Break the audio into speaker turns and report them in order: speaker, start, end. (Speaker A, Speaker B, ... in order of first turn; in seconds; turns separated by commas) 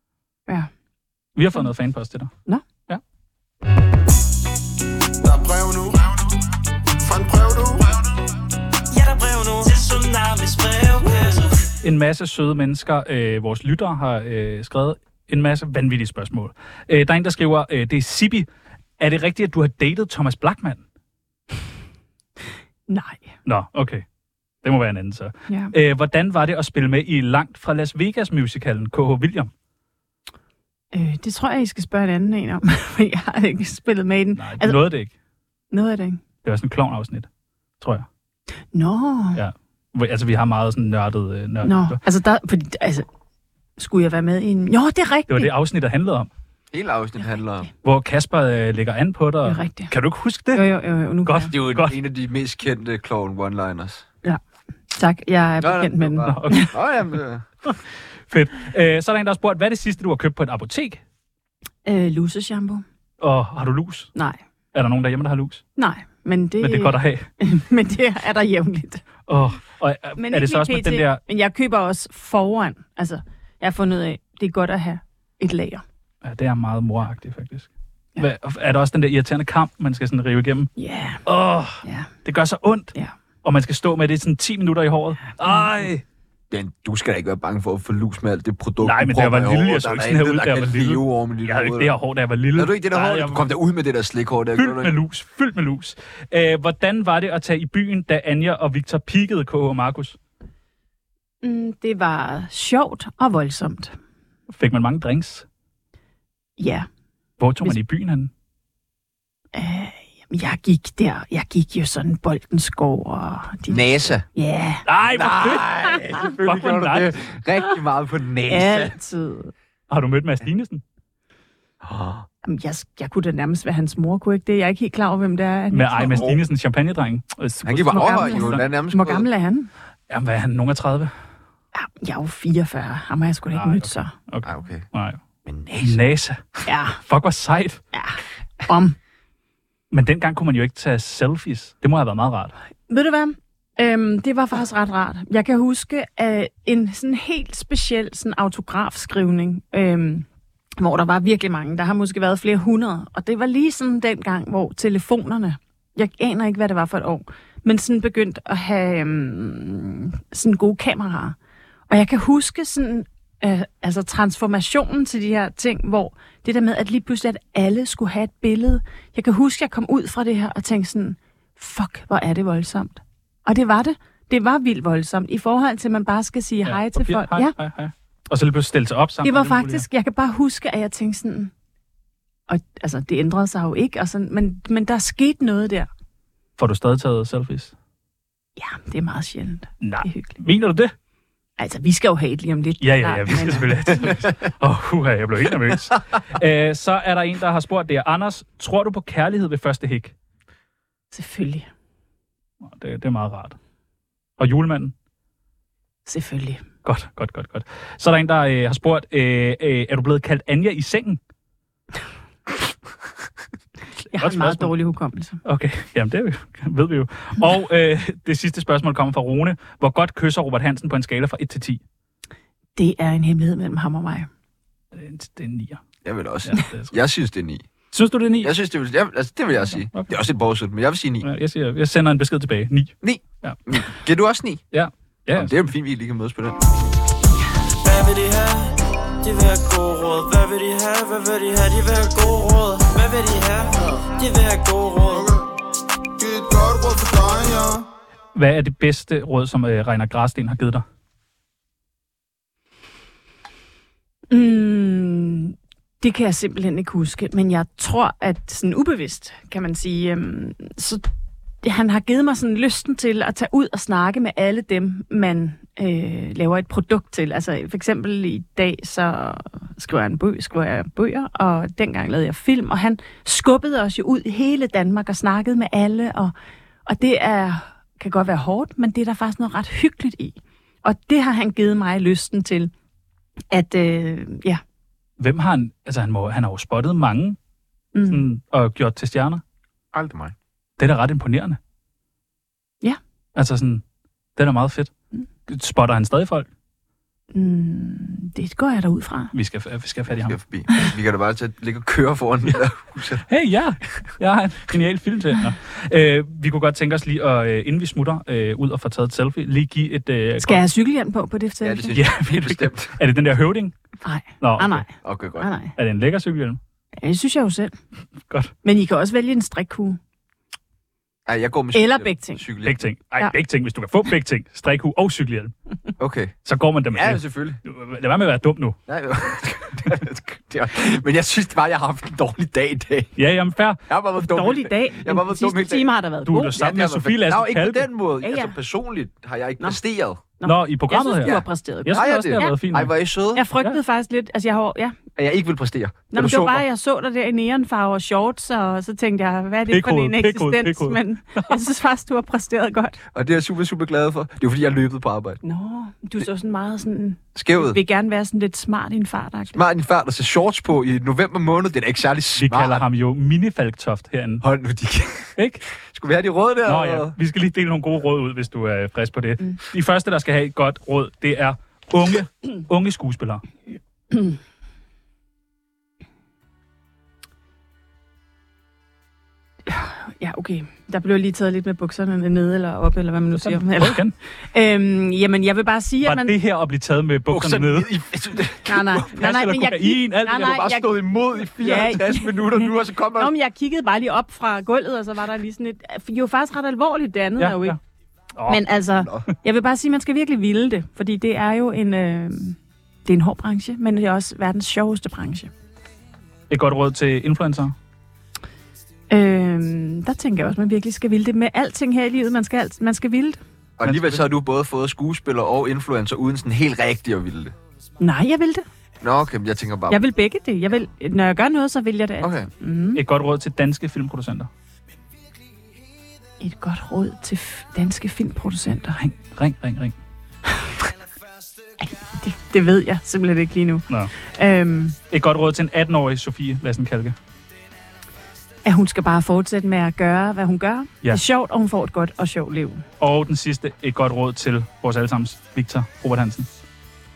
Speaker A: 1.4-2.3, Speaker B: 5.2-6.0, Speaker B: 7.0-8.0, Speaker C: 8.9-11.7, Speaker A: 11.8-18.5, Speaker A: 19.0-20.8, Speaker D: 22.9-23.3, Speaker A: 23.5-24.0, Speaker A: 24.6-29.5, Speaker D: 25.5-25.7, Speaker D: 30.9-34.8, Speaker A: 34.4-35.1, Speaker D: 35.7-36.2, Speaker A: 36.4-37.3, Speaker A: 37.8-38.1, Speaker D: 38.7-39.4, Speaker A: 39.4-42.0, Speaker D: 41.6-43.1, Speaker D: 43.8-45.5, Speaker A: 45.3-46.3, Speaker E: 46.7-47.7, Speaker A: 47.8-50.6, Speaker D: 49.4-49.9, Speaker D: 50.5-51.5, Speaker A: 51.3-52.0, Speaker E: 51.5-54.1, Speaker D: 54.9-56.7, Speaker E: 55.6-57.5, Speaker A: 56.3-56.7, Speaker A: 58.3-61.0, Speaker D: 61.9-62.8, Speaker A: 63.2-64.1, Speaker D: 64.2-64.4, Speaker A: 64.7-65.6, Speaker D: 65.8-69.0, Speaker A: 66.6-67.3, Speaker A: 69.3-71.2, Speaker D: 70.2-75.8, Speaker A: 76.2-80.7, Speaker D: 80.8-81.2, Speaker A: 81.2-82.9, Speaker D: 81.8-82.1, Speaker A: 83.4-86.0, Speaker D: 85.3-85.7, Speaker E: 86.5-92.0, Speaker A: 88.8-93.4, Speaker E: 92.5-95.0, Speaker A: 94.6-100.2, Speaker D: 101.4-103.9, Speaker A: 104.5-105.5, Speaker D: 106.6-106.9, Speaker A: 107.4-108.3, Speaker D: 109.5-114.8, Speaker E: 113.7-114.3, Speaker A: 114.9-117.1, Speaker E: 115.1-119.0, Speaker D: 118.5-119.5, Speaker A: 119.9-120.8, Speaker E: 121.8-122.3, Speaker D: 122.4-126.1, Speaker A: 125.7-128.6, Speaker E: 126.0-126.4, Speaker E: 127.7-129.3, Speaker D: 127.9-129.7, Speaker A: 130.1-131.1, Speaker D: 131.8-134.1, Speaker A: 133.6-135.2, Speaker E: 134.4-134.9, Speaker E: 135.4-136.0, Speaker A: 135.8-136.4, Speaker D: 136.7-137.0, Speaker A: 137.0-137.8, Speaker D: 137.9-139.0, Speaker A: 139.9-142.5, Speaker D: 142.9-150.3, Speaker D: 150.8-161.4, Speaker D: 161.9-177.6, Speaker A: 176.7-179.9, Speaker D: 179.2-181.5, Speaker D: 182.5-185.9, Speaker A: 186.6-187.7, Speaker D: 188.6-190.4, Speaker A: 189.8-190.9, Speaker D: 191.6-194.0, Speaker A: 192.8-200.1, Speaker D: 201.1-201.7, Speaker A: 202.6-203.6, Speaker A: 204.4-204.9, Speaker D: 206.1-206.6, Speaker A: 206.8-211.2, Speaker D: 214.1-215.4, Speaker A: 214.2-214.7, Speaker A: 215.4-221.8, Speaker D: 222.8-224.3, Speaker A: 224.9-225.8, Speaker E: 226.0-227.7, Speaker A: 226.4-227.0, Speaker A: 227.9-228.5, Speaker E: 228.4-231.3, Speaker A: 229.6-230.1, Speaker A: 231.2-233.6, Speaker E: 233.0-234.6, Speaker A: 234.7-235.6, Speaker E: 235.3-236.7, Speaker C: 237.8-245.3, Speaker B: 245.1-245.5, Speaker B: 246.2-247.9, Speaker A: 248.3-250.8, Speaker D: 254.3-261.1, Speaker D: 261.6-276.3, Speaker D: 276.9-282.7, Speaker D: 283.5-284.6, Speaker A: 285.2-287.4, Speaker D: 287.9-288.2, Speaker A: 288.1-289.4, Speaker E: 289.9-290.3, Speaker A: 290.8-291.6, Speaker A: 293.4-293.8, Speaker A: 294.4-294.9, Speaker A: 295.5-296.5, Speaker D: 297.3-299.3, Speaker A: 299.3-300.4, Speaker E: 300.1-303.2, Speaker A: 303.3-310.6, Speaker D: 310.4-312.0, Speaker E: 311.6-313.0, Speaker A: 311.9-313.7, Speaker D: 314.0-315.7, Speaker A: 314.4-314.9, Speaker E: 315.0-315.5, Speaker A: 315.8-316.6, Speaker D: 317.0-317.8, Speaker D: 318.6-320.0, Speaker E: 321.3-322.8, Speaker D: 321.7-322.4, Speaker A: 322.6-325.5, Speaker E: 326.0-326.4, Speaker A: 326.4-328.8, Speaker E: 326.9-327.6, Speaker E: 328.9-333.1, Speaker A: 333.2-333.8, Speaker E: 333.9-335.9, Speaker D: 334.2-336.6, Speaker A: 336.3-337.9, Speaker E: 336.6-340.2, Speaker D: 338.2-338.6, Speaker D: 340.4-342.6, Speaker A: 340.4-342.9, Speaker E: 341.9-343.4, Speaker D: 343.4-345.0, Speaker E: 345.2-346.6, Speaker D: 346.1-353.0, Speaker A: 349.7-351.6, Speaker E: 353.1-355.4, Speaker D: 355.4-359.6, Speaker E: 357.4-357.8, Speaker E: 359.5-362.8, Speaker A: 362.4-364.4, Speaker E: 364.4-367.1, Speaker A: 365.4-365.6, Speaker A: 366.7-373.4, Speaker D: 374.1-374.4, Speaker D: 379.7-384.0, Speaker A: 383.4-384.1, Speaker D: 384.5-386.4, Speaker A: 386.0-387.9, Speaker E: 387.3-389.1, Speaker D: 388.7-397.8, Speaker A: 389.0-390.6, Speaker E: 390.3-393.3, Speaker A: 397.4-397.8, Speaker A: 398.4-398.6, Speaker D: 398.5-405.5, Speaker E: 399.0-399.3, Speaker A: 406.5-407.8, Speaker D: 409.1-413.4, Speaker E: 413.8-417.5, Speaker A: 413.8-414.2, Speaker D: 418.0-418.6, Speaker E: 419.0-420.0, Speaker D: 419.9-423.0, Speaker E: 422.2-422.5, Speaker A: 422.9-424.5, Speaker D: 426.4-429.0, Speaker A: 429.0-429.9, Speaker D: 431.8-435.0, Speaker A: 435.1-437.2, Speaker D: 438.6-442.9, Speaker A: 443.0-446.5